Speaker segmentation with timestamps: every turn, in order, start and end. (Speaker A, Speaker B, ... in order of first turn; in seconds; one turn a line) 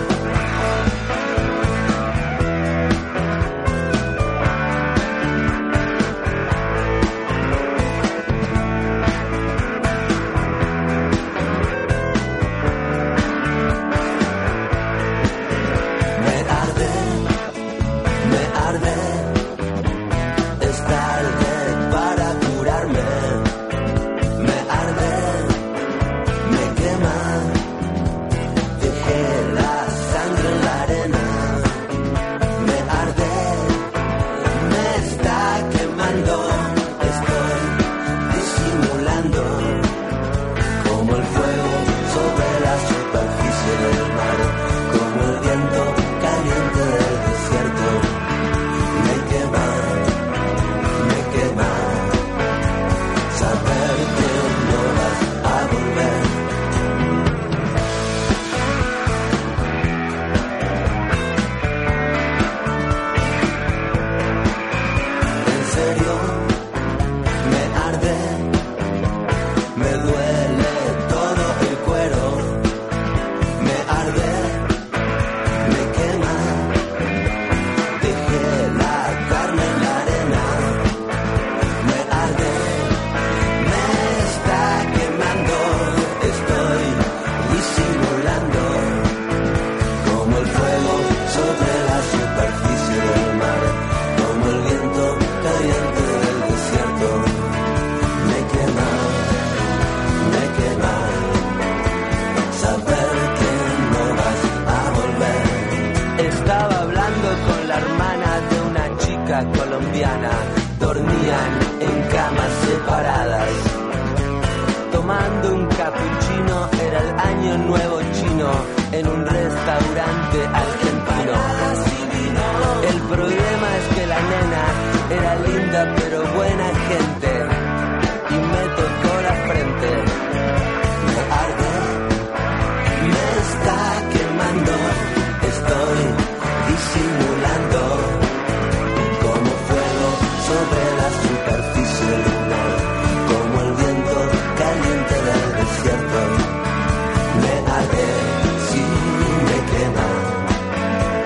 Speaker A: 16.2-17.2
Speaker A: 18.2-19.3
Speaker A: 20.6-23.4
Speaker A: 24.4-25.5
Speaker A: 26.4-27.5
Speaker A: 28.8-31.7
Speaker A: 32.6-33.7
Speaker A: 34.6-39.8
Speaker A: 40.8-48.1
Speaker A: 48.9-50.0
Speaker A: 51.0-52.1
Speaker A: 53.3-56.3
Speaker A: 65.4-66.4
Speaker A: 67.4-68.4
Speaker A: 69.8-72.6
Speaker A: 73.6-74.6
Speaker A: 75.6-76.7
Speaker A: 78.0-80.8
Speaker A: 81.8-82.9
Speaker A: 83.6-89.0
Speaker A: 90.0-97.4
Speaker A: 98.2-99.2
Speaker A: 100.2-101.4
Speaker A: 102.5-105.7
Speaker A: 106.2-113.7
Speaker A: 114.9-127.5
Speaker A: 128.3-130.1
Speaker A: 131.0-132.0
Speaker A: 133.0-138.2
Speaker A: 139.0-146.4
Speaker A: 147.3-150.4